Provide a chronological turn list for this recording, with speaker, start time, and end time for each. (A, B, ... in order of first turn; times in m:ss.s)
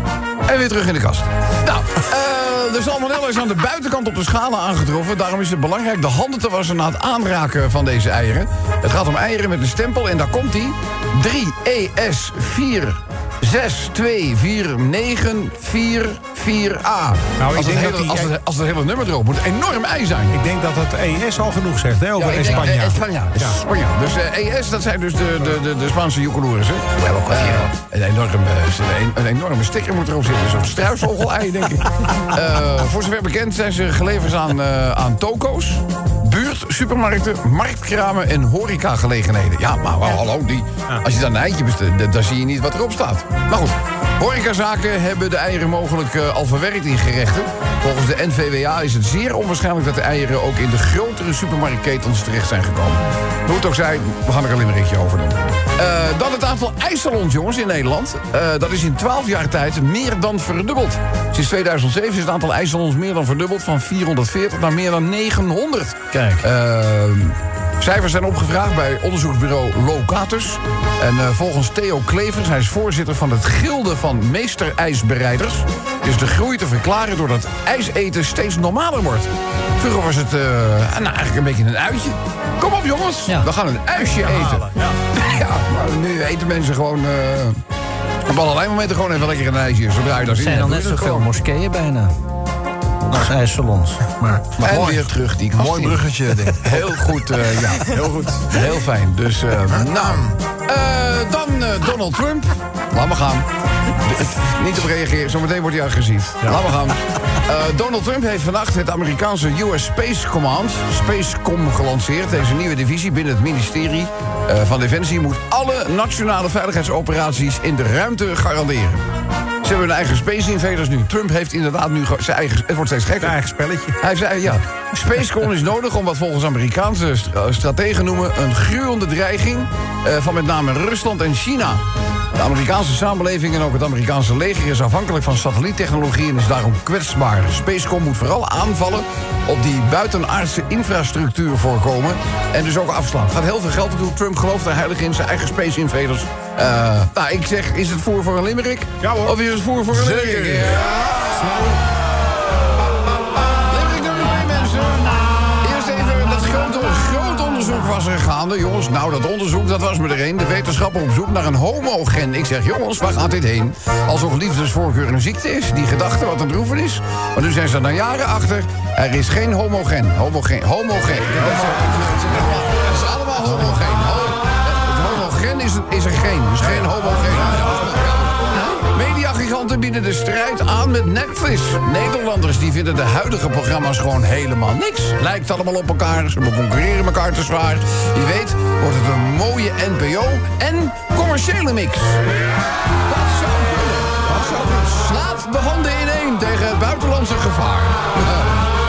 0:00.5-0:20.4 A
0:17.4-0:18.3 B
0:20.3-0:23.6 B
0:22.2-1:27.6 A
0:22.4-0:22.7 C
0:27.0-0:27.7 C
1:06.1-1:06.5 C
1:24.2-1:24.9 B
1:28.3-1:31.3 A
1:30.2-1:32.1 C
1:33.0-1:34.8 C
1:34.6-1:36.0 A
1:34.6-1:37.1 D
1:36.6-1:43.5 A
1:37.8-1:38.5 D
1:39.7-1:40.3 D
1:44.0-1:59.0 A
1:59.6-2:03.4 A
2:03.2-2:04.0 B
2:04.0-2:11.8 A
2:12.4-2:31.8 A
2:29.0-2:29.4 B
2:30.0-2:30.7 D
2:30.1-2:30.6 B
2:31.4-2:31.8 B
2:33.7-3:12.2 A
2:56.8-2:57.7 D
3:13.1-3:18.7 A